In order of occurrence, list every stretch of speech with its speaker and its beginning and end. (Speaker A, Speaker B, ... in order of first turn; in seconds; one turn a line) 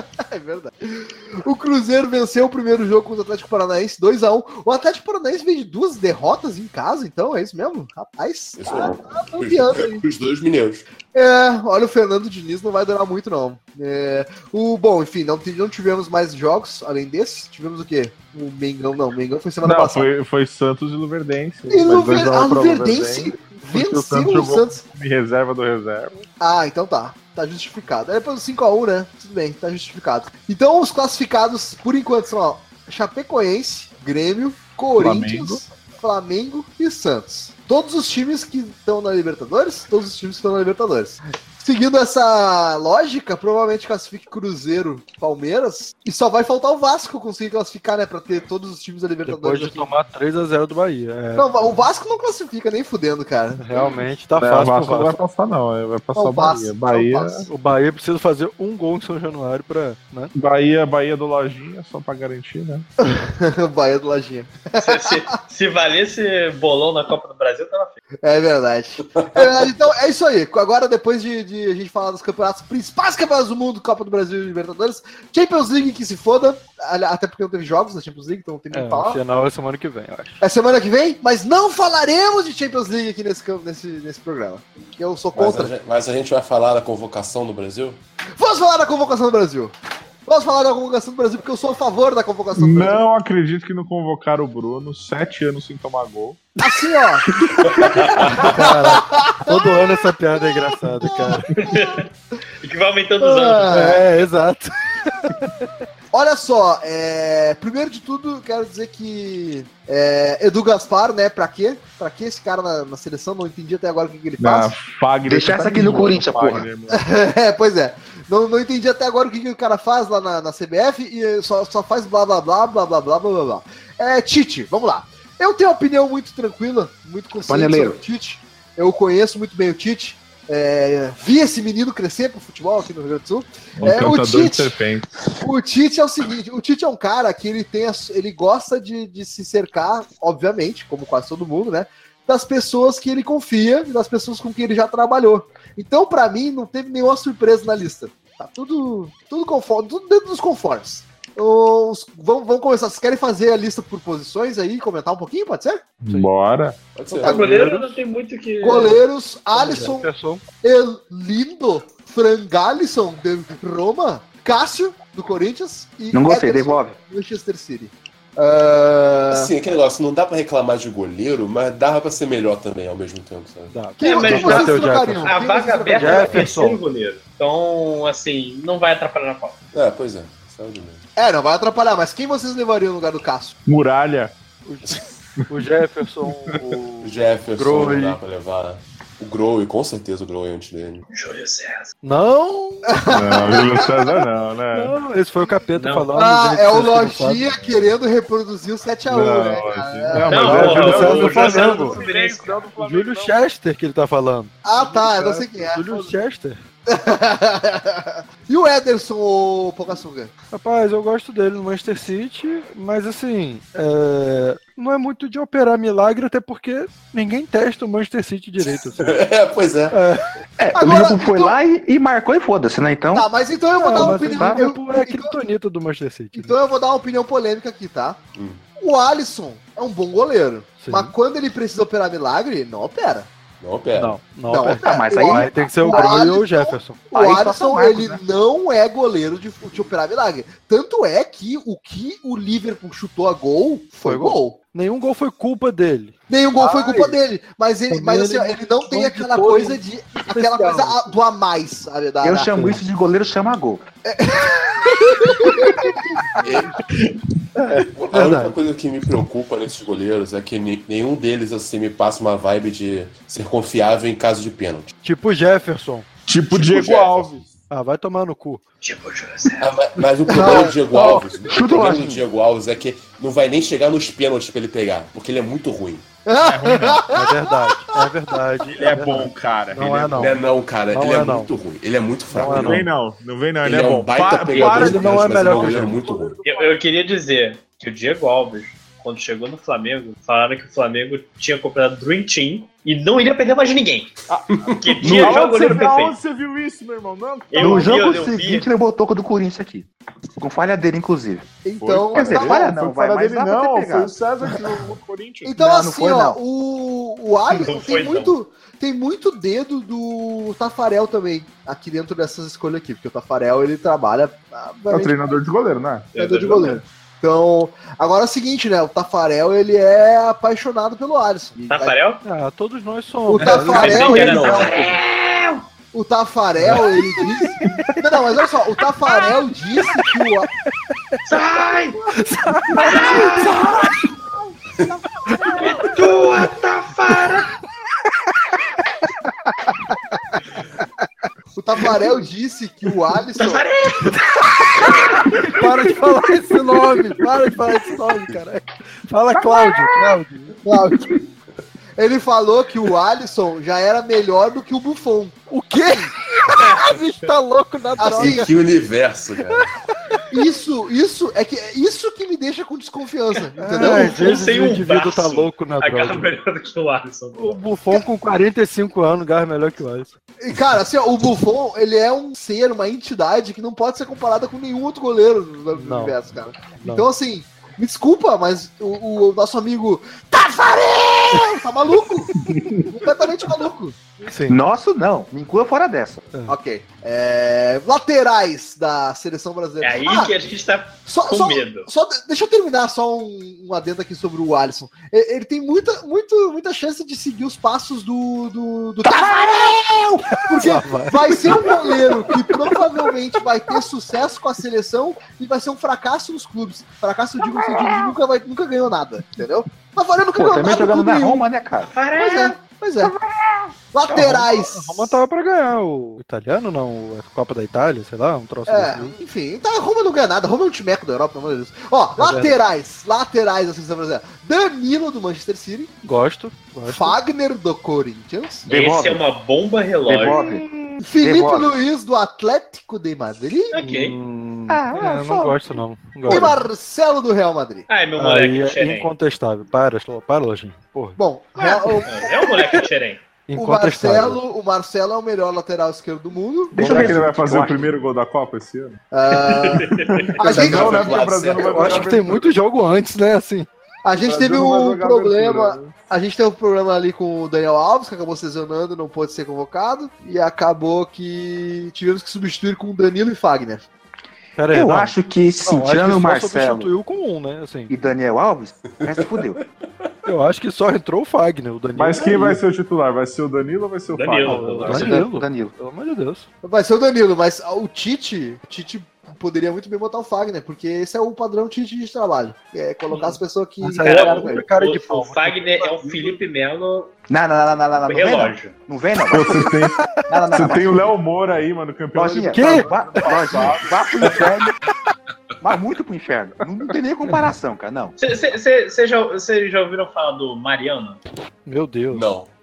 Speaker A: 0.2-10.0
Speaker B: 8.6-10.8
Speaker A: 11.1-20.1
Speaker C: 19.6-26.2
Speaker A: 21.7-24.8
Speaker A: 26.4-49.9
Speaker C: 35.0-35.6
Speaker D: 49.2-51.5
Speaker A: 51.4-53.9
Speaker D: 53.6-55.2
Speaker C: 54.4-57.5
Speaker A: 56.1-57.5
Speaker D: 57.5-60.3
Speaker C: 60.3-62.9
Speaker A: 63.0-65.3
Speaker E: 64.8-68.0
Speaker A: 68.2-79.2
Speaker D: 78.7-80.4
Speaker A: 80.4-85.7
Speaker B: 85.3-88.0
Speaker A: 88.4-89.7
Speaker A: 90.2-93.0
Speaker C: 92.5-96.6
Speaker A: 96.6-99.9
Speaker B: 97.6-98.5
Speaker D: 98.3-101.5
Speaker A: 101.0-102.0
Speaker E: 101.5-102.1
Speaker E: 102.6-104.0
Speaker A: 103.2-104.0
Speaker D: 103.7-105.7
Speaker A: 106.1-114.7
Speaker C: 114.4-117.1
Speaker F: 115.3-116.7
Speaker A: 116.9-134.7
Speaker F: 127.4-128.0
Speaker C: 133.8-135.1
Speaker A: 135.4-155.8
Speaker C: 156.0-156.8
Speaker D: 156.1-156.3
Speaker B: 156.9-157.4
Speaker E: 157.2-159.0
Speaker A: 157.2-157.6
Speaker D: 157.2-158.0
Speaker A: 158.6-160.1
Speaker D: 159.5-160.4
Speaker A: 160.6-169.5
Speaker F: 166.1-167.0
Speaker B: 169.3-173.7
Speaker D: 173.7-175.3
Speaker A: 174.0-176.4
Speaker E: 174.0-179.6
Speaker D: 175.9-176.8
Speaker B: 179.7-181.0
Speaker A: 181.2-183.6
Speaker C: 183.7-184.3
Speaker D: 184.7-188.2
Speaker C: 186.5-186.8
Speaker B: 187.0-191.0
Speaker E: 191.1-191.9
Speaker D: 192.0-192.9
Speaker A: 192.9-194.2
Speaker C: 193.1-194.9
Speaker D: 194.7-197.5
Speaker E: 195.7-196.1
Speaker A: 196.1-201.0
Speaker C: 199.1-203.4
Speaker D: 200.1-202.0
Speaker E: 200.3-202.6
Speaker D: 202.8-206.6
Speaker A: 204.6-206.1
Speaker A: 206.9-210.3
Speaker D: 210.5-219.2
Speaker B: 218.9-219.9
Speaker D: 219.9-220.3
Speaker F: 220.6-223.3
Speaker A: 220.7-221.6
Speaker A: 223.1-225.3
Speaker D: 223.8-226.6
Speaker F: 223.9-224.6
Speaker A: 226.3-228.2
Speaker B: 228.3-228.6
Speaker A: 228.8-233.3
Speaker D: 230.8-231.1
Speaker B: 233.6-234.2
Speaker D: 233.9-237.1
Speaker A: 234.5-244.6
Speaker F: 234.8-236.3
Speaker F: 237.1-238.2
Speaker D: 244.0-247.2
Speaker A: 246.3-252.5
Speaker D: 247.9-251.2
Speaker F: 252.2-253.8
Speaker D: 252.5-252.8
Speaker A: 254.1-256.0
Speaker D: 255.4-255.8
Speaker B: 256.4-256.8
Speaker B: 257.9-264.9
Speaker D: 258.1-258.5
Speaker D: 265.0-266.1
Speaker C: 266.3-267.4
Speaker B: 266.5-267.5
Speaker D: 267.7-268.6
Speaker E: 268.8-269.8
Speaker B: 269.6-276.0
Speaker A: 270.3-270.8
Speaker F: 270.9-272.2
Speaker A: 276.2-277.6
Speaker C: 276.4-277.1
Speaker D: 277.1-280.4
Speaker C: 278.7-280.4
Speaker B: 280.1-282.9
Speaker D: 280.9-281.5
Speaker D: 282.3-282.9
Speaker C: 282.4-286.8
Speaker B: 283.6-286.4
Speaker D: 284.5-286.0
Speaker E: 286.4-294.2
Speaker C: 294.3-298.0
Speaker E: 294.8-296.2
Speaker F: 295.0-295.4
Speaker E: 297.5-298.7
Speaker F: 297.6-299.9
Speaker F: 300.4-301.5
Speaker A: 301.6-302.7
Speaker C: 301.8-305.6
Speaker F: 302.1-304.1
Speaker A: 305.4-315.4
Speaker F: 305.6-306.4
Speaker E: 307.5-308.4
Speaker C: 314.9-316.1
Speaker E: 316.1-316.8
Speaker A: 316.1-321.9
Speaker E: 321.7-322.2
Speaker D: 322.2-325.0
Speaker A: 323.3-324.9
Speaker E: 323.4-325.6
Speaker A: 325.9-330.5
Speaker D: 326.6-328.0
Speaker E: 331.2-332.0
Speaker D: 332.1-333.9
Speaker E: 332.8-333.8
Speaker A: 332.8-333.5
Speaker D: 335.2-335.7
Speaker E: 335.5-337.5
Speaker A: 341.5-343.6
Speaker E: 343.4-345.4
Speaker D: 344.8-350.6
Speaker A: 345.6-345.9
Speaker A: 350.6-351.2
Speaker A: 352.0-356.1
Speaker D: 355.5-358.5
Speaker E: 356.6-357.0
Speaker A: 358.0-358.5
Speaker B: 358.2-359.7
Speaker D: 359.5-360.2
Speaker A: 360.3-364.1
Speaker D: 363.6-366.3
Speaker E: 363.6-367.6
Speaker D: 367.4-370.1
Speaker A: 370.4-382.3
Speaker D: 375.7-376.1
Speaker D: 376.8-377.1
Speaker C: 382.3-382.9
Speaker A: 382.9-383.9
Speaker D: 384.2-384.6
Speaker F: 384.5-386.2
Speaker A: 386.5-390.3
Speaker E: 389.8-391.9
Speaker A: 391.1-399.7
Speaker F: 399.0-400.4
Speaker A: 400.4-411.4
Speaker D: 400.5-401.8
Speaker F: 401.3-402.8
Speaker F: 410.4-411.9
Speaker E: 411.8-412.6
Speaker A: 412.2-413.1
Speaker F: 413.0-413.5
Speaker A: 413.9-415.2
Speaker F: 414.1-414.4
Speaker D: 414.1-419.1
Speaker A: 418.7-425.9
Speaker D: 422.2-422.6
Speaker D: 426.0-427.2
Speaker A: 426.9-428.6
Speaker F: 428.6-429.2
Speaker E: 428.6-430.4
Speaker F: 430.0-430.6
Speaker D: 430.3-431.0
Speaker A: 431.0-433.7
Speaker F: 431.2-431.7
Speaker E: 433.7-434.1
Speaker D: 433.8-436.6
Speaker F: 434.7-435.6
Speaker A: 436.2-437.9
Speaker E: 437.9-439.1
Speaker D: 438.2-441.2
Speaker A: 441.2-442.3
Speaker E: 441.6-443.2
Speaker D: 441.8-442.8
Speaker D: 443.5-444.4
Speaker A: 443.5-447.0
Speaker F: 446.7-447.9
Speaker D: 446.8-447.2
Speaker C: 446.8-449.0
Speaker A: 449.1-451.2
Speaker E: 449.4-450.4
Speaker C: 449.9-452.5
Speaker B: 450.5-452.1
Speaker D: 451.6-453.7
Speaker A: 454.0-463.8
Speaker C: 454.2-456.1
Speaker D: 464.6-467.9
Speaker F: 464.7-466.9
Speaker F: 467.9-469.6
Speaker B: 469.0-470.1
Speaker D: 470.2-472.6
Speaker C: 471.9-475.1
Speaker E: 474.1-475.2
Speaker D: 474.4-476.4
Speaker F: 474.9-475.7
Speaker A: 476.6-484.6
Speaker D: 483.1-486.4
Speaker E: 484.0-487.1
Speaker F: 487.3-491.1
Speaker E: 488.0-488.7
Speaker C: 489.3-494.4
Speaker F: 492.1-494.8
Speaker D: 492.5-493.3
Speaker F: 495.6-498.1
Speaker E: 498.2-501.2
Speaker D: 501.6-502.2
Speaker B: 502.1-502.5